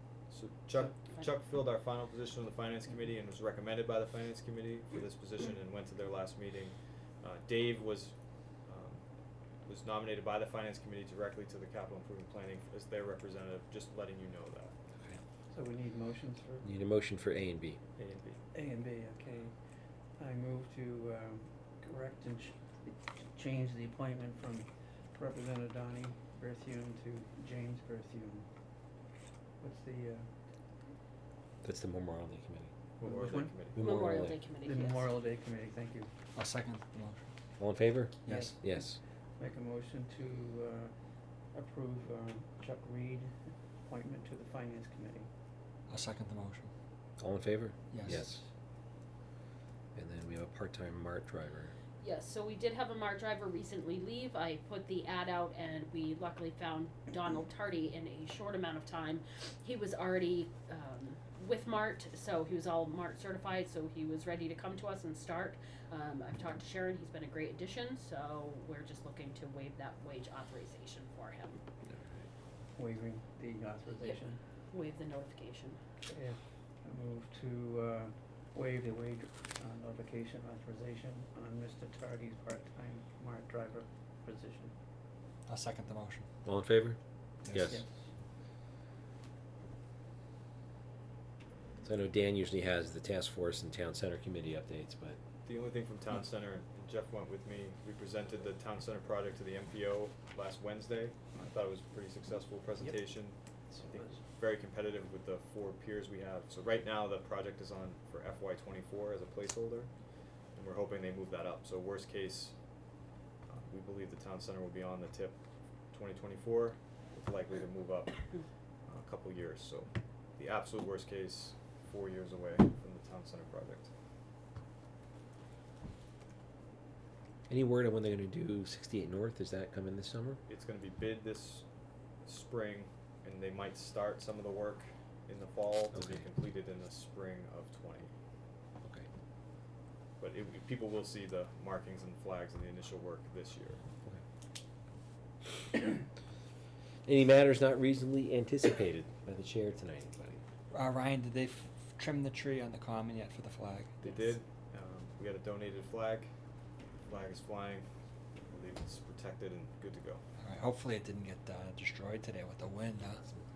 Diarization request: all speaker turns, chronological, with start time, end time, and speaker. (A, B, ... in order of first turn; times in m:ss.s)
0:00.3-0:09.1 A
0:00.8-0:01.3 B
0:09.6-0:14.7 A
0:15.5-0:16.7 C
0:16.6-0:17.8 D
0:18.0-0:18.4 A
0:18.5-0:19.6 C
0:20.2-0:28.5 C
0:29.6-0:30.3 C
0:31.6-0:32.7 D
0:33.0-0:33.8 A
0:33.0-0:33.6 C
0:33.8-0:34.4 D
0:33.8-0:35.1 B
0:34.6-0:36.1 C
0:36.3-0:37.3 E
0:37.6-0:39.0 D
0:38.2-0:38.6 E
0:38.3-0:40.9 C
0:41.5-0:45.3 C
0:45.9-0:46.7 E
0:47.2-0:48.4 D
0:47.9-0:48.3 E
0:48.1-0:48.5 C
0:50.0-0:51.7 D
0:52.0-1:11.6 B
1:11.8-1:12.3 D
1:12.8-1:14.4 C
1:14.0-1:15.8 B
1:16.1-1:24.7 C
1:25.5-1:26.3 E
1:26.4-1:27.8 D
1:27.4-1:27.8 E
1:27.7-1:28.1 C
1:31.8-1:35.2 D
1:35.4-2:03.9 A
1:42.7-1:44.3 C
2:07.5-2:10.4 D
2:10.5-2:11.7 A
2:12.2-2:18.1 A
2:15.9-2:16.3 D
2:18.8-2:19.1 D
2:20.2-2:23.8 A
2:27.0-2:30.4 D
2:30.7-2:34.0 E
2:34.0-2:36.3 A
2:37.0-2:40.2 A
2:40.4-2:43.3 E